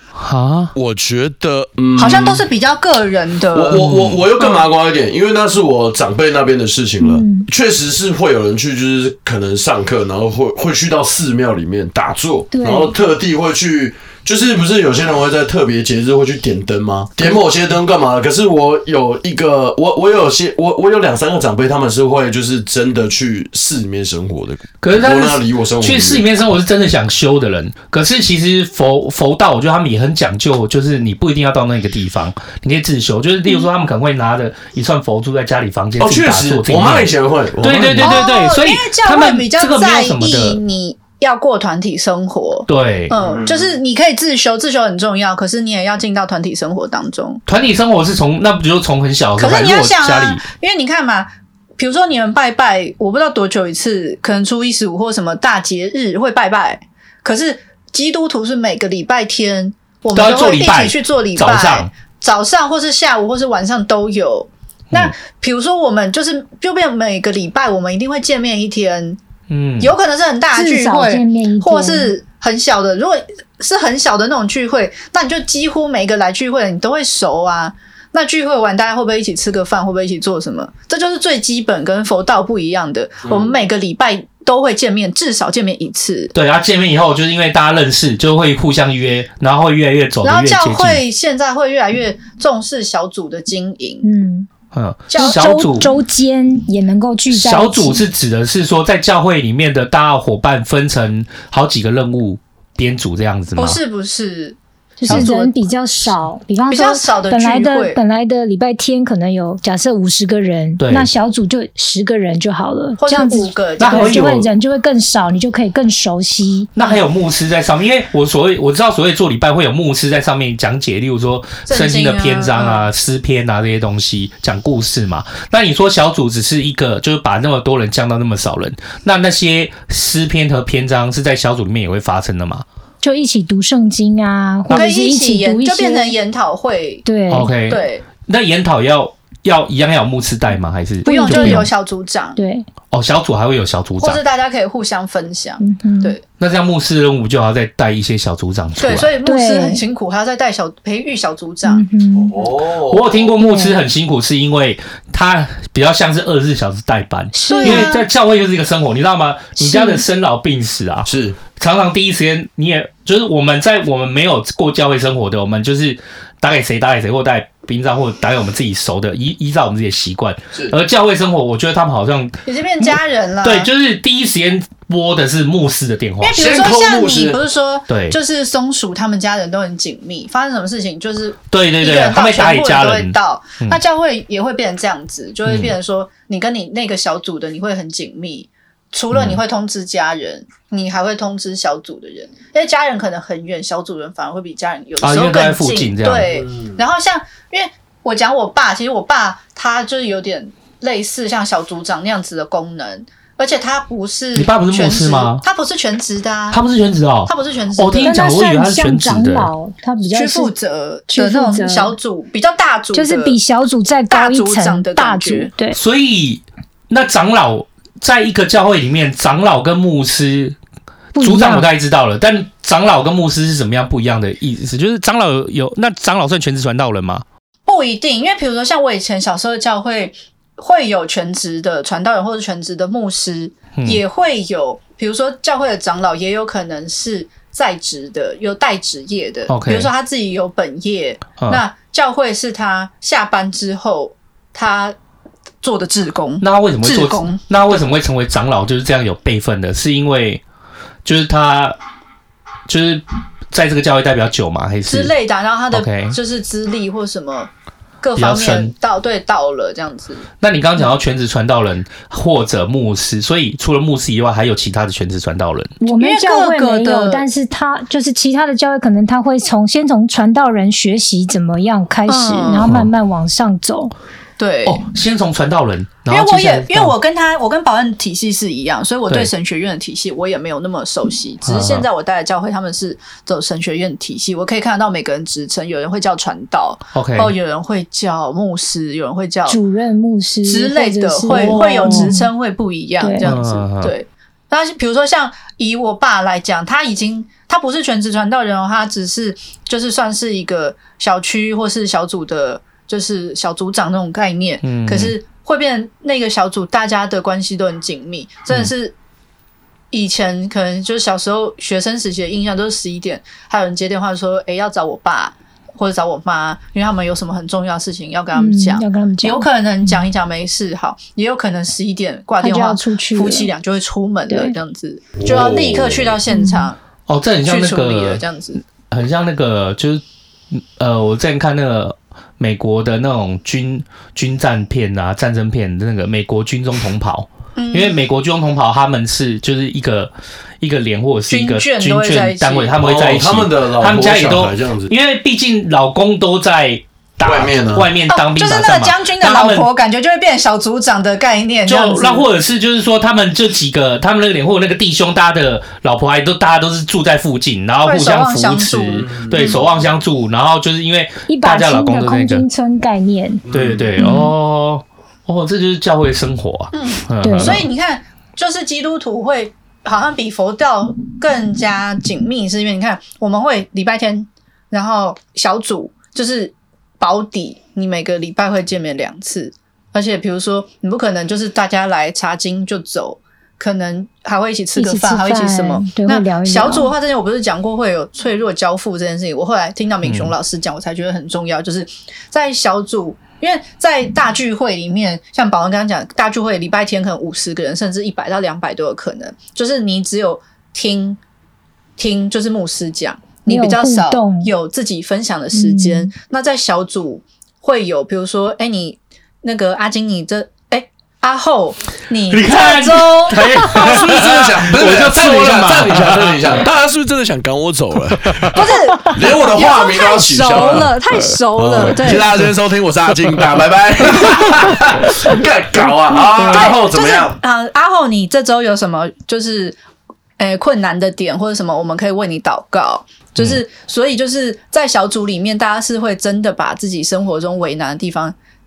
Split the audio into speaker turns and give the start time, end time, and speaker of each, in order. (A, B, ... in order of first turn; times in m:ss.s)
0:00.2-0:00.7 A
0:00.8-0:02.4 B
0:02.0-0:03.8 C
0:03.5-0:26.2 B
0:03.7-0:04.3 A
0:07.0-0:07.5 D
0:12.5-0:12.9 D
0:24.8-0:40.6 A
0:36.0-0:38.2 B
0:38.0-0:47.4 C
0:42.7-0:43.2 A
0:43.2-0:43.5 B
0:47.5-0:50.4 A
0:49.4-1:09.2 C
1:00.1-1:01.9 A
1:09.5-1:09.9 A
1:09.8-1:26.3 C
1:10.5-1:12.1 D
1:26.3-1:31.0 A
1:30.2-1:34.0 C
1:34.0-1:34.5 D
1:34.7-1:35.9 A
1:35.1-1:35.5 C
1:35.2-1:38.0 D
1:37.3-1:43.8 A
1:43.6-1:45.6 C
1:45.0-1:56.7 D
1:46.7-1:48.0 C
1:50.8-1:51.1 A
1:53.0-1:54.4 C
1:53.8-1:54.5 A
1:56.8-2:12.6 A
2:01.7-2:02.9 C
2:13.0-2:16.1 D
2:14.7-2:17.1 C
2:17.0-2:17.5 D
2:17.3-2:21.7 A
2:17.7-2:18.0 C
2:21.0-2:21.7 D
2:21.1-2:22.4 C
2:22.4-2:22.7 D
2:22.9-2:24.2 A
2:24.0-2:26.2 C
2:25.6-2:26.2 D
2:26.4-2:29.1 A
2:28.8-2:31.8 C
2:29.2-2:29.8 D
2:31.6-2:32.4 D
2:32.2-2:33.1 B
2:32.9-2:56.5 A
2:33.4-2:33.8 D
2:37.3-2:37.9 D
2:37.5-2:38.0 C
2:39.6-2:40.0 D
2:41.1-2:41.4 B
2:52.5-2:53.7 C
2:56.2-3:26.6 C
2:56.4-2:57.4 B
2:57.9-2:58.2 A
3:01.5-3:03.8 A
3:05.5-3:05.8 A
3:09.1-3:09.4 A
3:15.0-3:16.4 A
3:24.4-3:25.4 A
3:26.5-3:29.5 A
3:27.3-3:28.2 C
3:28.0-3:30.5 D
3:30.1-3:33.4 C
3:31.1-3:32.0 D
3:32.9-3:35.8 D
3:34.1-3:35.5 C
3:35.7-3:40.6 A
3:41.1-3:41.7 D
3:41.2-3:47.2 A
3:47.7-4:05.0 C
3:53.8-3:54.0 A
3:59.5-3:59.9 A
4:05.6-4:07.4 C
4:06.4-4:10.4 A
4:11.0-4:11.8 A
4:12.7-4:15.1 A
4:14.9-4:17.5 C
4:15.7-4:16.2 A
4:18.0-4:20.3 C
4:18.2-4:18.7 A
4:20.4-4:25.7 A
4:25.8-4:33.9 D
4:26.0-4:27.3 C
4:32.1-4:32.7 C
4:32.6-4:32.9 A
4:34.4-4:34.8 C
4:34.6-4:37.0 A
4:36.1-4:49.6 C
4:41.4-4:41.9 A
4:46.9-4:47.4 A
4:49.5-4:52.3 D
4:50.4-5:08.9 C
4:51.3-4:52.2 A
4:53.0-4:53.3 D
4:53.2-4:53.9 A
5:04.6-5:05.2 A
5:09.9-5:26.8 C
5:18.4-5:19.4 D
5:22.4-5:23.5 D
5:24.3-5:24.6 D
5:25.2-5:26.1 B
5:26.3-5:26.7 D
5:27.1-5:28.2 A
5:27.4-5:28.6 C
5:28.8-5:49.7 A
5:37.6-5:38.0 C
5:41.3-5:42.8 C
5:42.8-5:44.9 B
5:47.2-5:47.9 B
5:48.1-5:52.3 C
5:51.7-6:02.5 A
5:57.8-5:59.6 C
6:01.3-6:03.4 D
6:03.5-6:03.9 B
6:03.5-6:07.6 A
6:04.0-6:04.3 D
6:06.7-6:41.2 C
6:07.2-6:07.6 D
6:24.8-6:26.9 D
6:30.0-6:30.3 A
6:42.0-6:54.2 C
6:43.5-6:44.5 D
6:45.5-6:46.1 D
6:52.3-6:56.6 A
6:53.7-6:58.6 B
6:58.2-6:58.6 A
6:58.5-7:02.3 C
6:59.1-7:00.9 B
7:01.6-7:07.4 B
7:03.2-7:03.5 A
7:06.4-7:09.8 C
7:06.4-7:06.7 A
7:10.4-7:18.4 C
7:13.4-7:13.6 A